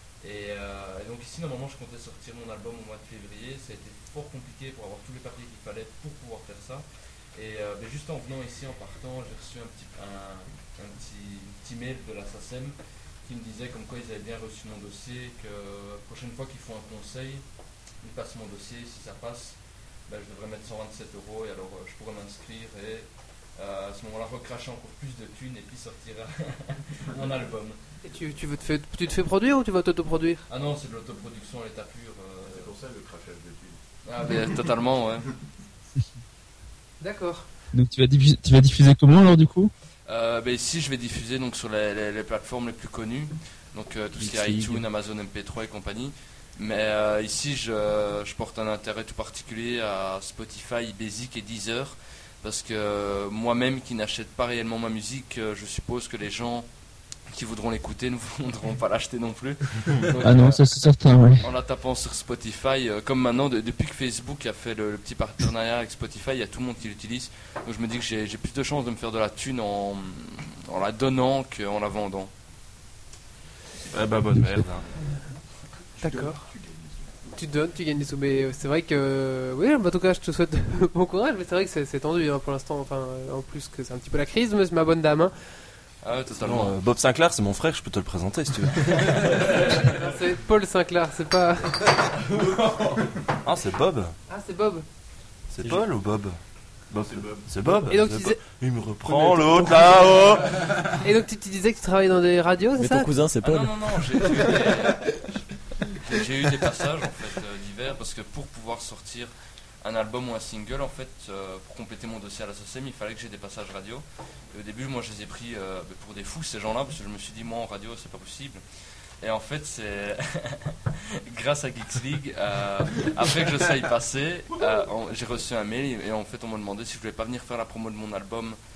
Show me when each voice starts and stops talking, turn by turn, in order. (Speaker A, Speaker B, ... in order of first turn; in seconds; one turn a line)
Speaker A: 0.2-17.4
Speaker A: 18.0-27.8
Speaker B: 28.0-30.4
Speaker A: 30.5-32.8
Speaker C: 32.5-33.8
Speaker A: 34.0-35.3
Speaker B: 37.0-37.5
Speaker D: 37.7-39.7
Speaker A: 40.1-56.7
Speaker E: 44.3-44.6
Speaker A: 57.3-60.6
Speaker D: 60.2-61.5
Speaker A: 61.4-72.3
Speaker F: 73.9-74.8
Speaker D: 74.3-74.6
Speaker C: 76.0-77.0
Speaker B: 76.0-76.5
Speaker B: 77.3-85.3
Speaker A: 86.0-86.8
Speaker F: 86.3-89.5
Speaker B: 89.7-91.8
Speaker F: 93.4-94.1
Speaker B: 94.3-94.8
Speaker F: 95.5-96.4
Speaker F: 96.9-100.8
Speaker C: 97.0-97.4
Speaker B: 97.9-98.4
Speaker B: 101.0-103.1
Speaker E: 102.8-104.5
Speaker A: 103.4-105.4
Speaker A: 105.9-118.6
Speaker A: 119.2-128.6